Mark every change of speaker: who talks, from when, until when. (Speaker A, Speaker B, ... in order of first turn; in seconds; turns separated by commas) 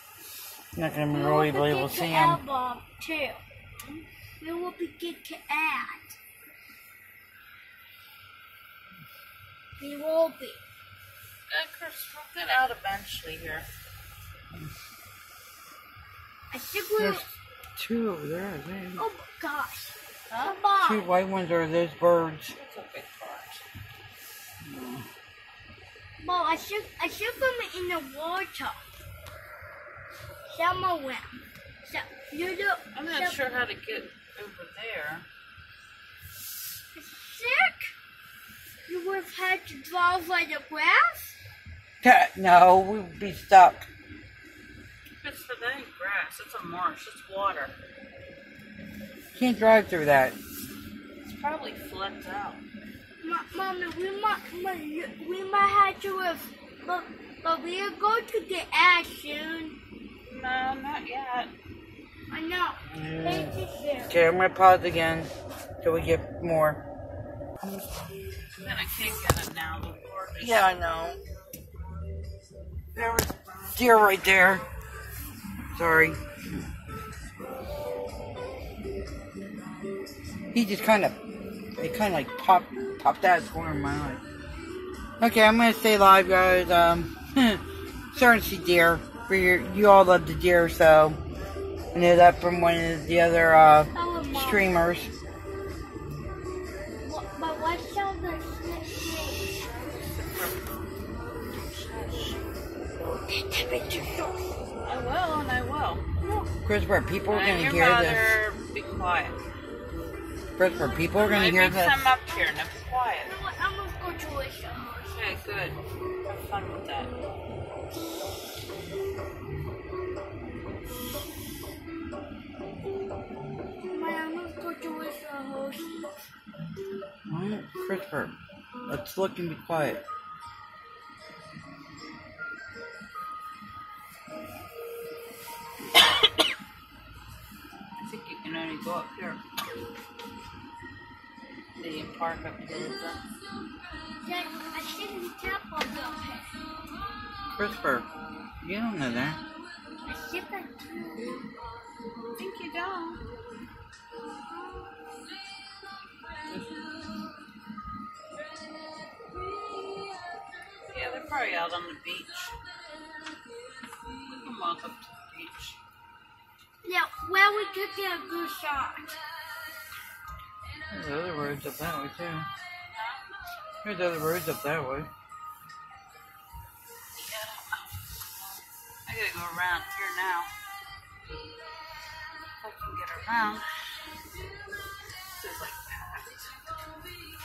Speaker A: 0.7-2.4, Speaker B: 1.1-3.4, Speaker C: 3.8-4.0, Speaker B: 4.4-6.2, Speaker B: 9.8-10.6, Speaker C: 11.5-13.7, Speaker B: 16.5-17.2, Speaker A: 17.0-19.0, Speaker B: 19.0-21.1, Speaker C: 20.3-20.6, Speaker A: 20.8-22.5, Speaker C: 22.5-23.6, Speaker A: 24.6-25.1, Speaker B: 26.2-28.8, Speaker B: 30.5-33.4, Speaker C: 32.9-35.3, Speaker B: 36.9-37.9, Speaker B: 38.9-41.4, Speaker A: 42.0-43.9, Speaker C: 45.2-47.7, Speaker A: 49.3-50.4, Speaker C: 51.2-52.6, Speaker B: 53.2-59.8, Speaker C: 60.2-61.5, Speaker B: 62.3-64.2, Speaker A: 62.9-63.5, Speaker A: 64.1-65.3, Speaker A: 65.8-66.8, Speaker A: 67.6-67.8, Speaker C: 68.6-70.7, Speaker A: 70.4-71.2, Speaker A: 72.9-74.6, Speaker A: 75.7-76.6, Speaker A: 80.5-81.2, Speaker A: 81.8-84.2, Speaker A: 85.2-91.2, Speaker A: 91.9-95.1, Speaker B: 93.9-94.8, Speaker B: 97.0-99.7, Speaker C: 99.7-100.8, Speaker C: 101.5-102.4, Speaker B: 103.2-104.4, Speaker C: 104.8-106.1, Speaker A: 106.6-108.3, Speaker C: 107.3-109.4, Speaker A: 110.5-112.0, Speaker C: 111.1-113.3, Speaker B: 113.2-115.3, Speaker C: 115.1-117.1, Speaker B: 123.8-126.1, Speaker A: 127.3-128.3, Speaker A: 128.9-130.0, Speaker C: 137.9-139.4, Speaker C: 141.8-143.2, Speaker B: 144.2-146.6, Speaker A: 147.6-148.1, Speaker A: 148.6-149.4, Speaker B: 150.1-151.4, Speaker C: 152.3-153.2, Speaker C: 160.9-162.6, Speaker C: 164.2-165.8, Speaker B: 166.8-169.2, Speaker A: 170.9-172.5, Speaker C: 172.9-173.2, Speaker A: 173.8-175.1, Speaker C: 177.2-180.5, Speaker C: 182.6-183.8, Speaker C: 185.3-186.8